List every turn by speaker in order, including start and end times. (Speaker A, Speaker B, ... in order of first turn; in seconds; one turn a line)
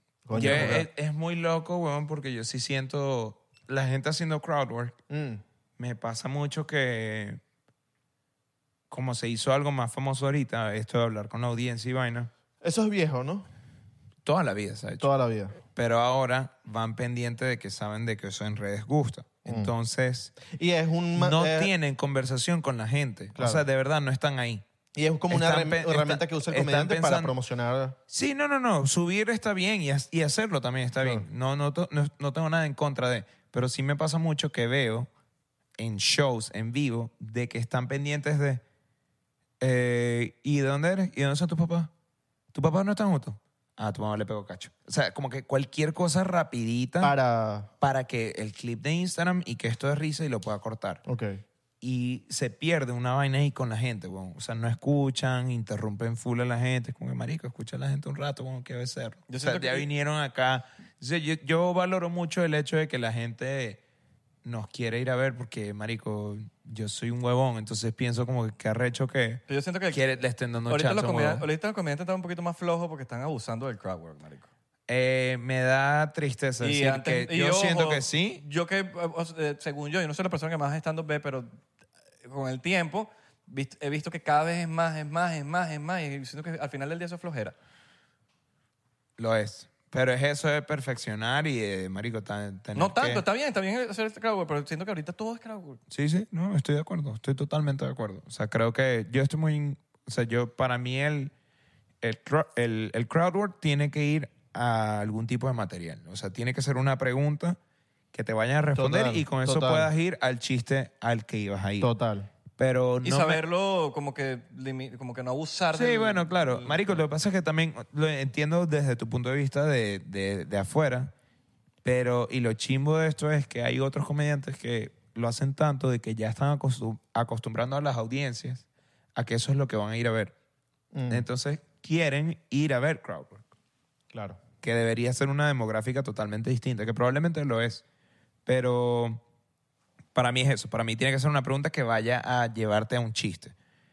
Speaker A: 0.2-0.9
Speaker B: 0.3-5.0
Speaker C: 0.3-0.8
Speaker A: 5.1-5.4
Speaker B: 5.8-7.4
Speaker B: 8.9-12.3
Speaker A: 12.6-13.5
Speaker B: 14.2-15.1
Speaker A: 15.0-15.6
Speaker B: 15.7-20.4
Speaker A: 19.4-19.7
Speaker A: 20.4-21.7
Speaker B: 21.1-24.6
Speaker A: 23.4-23.6
Speaker A: 24.9-28.0
Speaker B: 25.3-27.3
Speaker B: 28.1-35.1
Speaker A: 31.0-31.2
Speaker B: 35.8-38.6
Speaker B: 39.6-41.9
Speaker B: 42.5-47.1
Speaker A: 47.0-47.7
Speaker B: 47.8-51.0
Speaker A: 51.0-51.4
Speaker B: 51.8-63.8
Speaker C: 59.3-59.9
Speaker B: 64.4-71.4
Speaker C: 69.5-70.1
Speaker C: 70.7-74.5
Speaker B: 74.9-78.4
Speaker C: 76.6-81.5
Speaker C: 82.2-87.5
Speaker B: 89.2-93.2
Speaker C: 92.7-95.8
Speaker B: 95.9-101.3
Speaker B: 102.0-107.6
Speaker B: 108.1-111.9
Speaker A: 108.7-109.9
Speaker A: 111.8-112.3
Speaker B: 112.6-113.4
Speaker C: 113.0-117.0
Speaker B: 115.7-121.1
Speaker B: 121.8-128.6
Speaker B: 129.2-130.3
Speaker A: 130.9-131.2
Speaker B: 131.1-133.4
Speaker A: 134.1-134.4
Speaker B: 134.6-137.8
Speaker B: 138.4-139.2
Speaker B: 140.1-143.5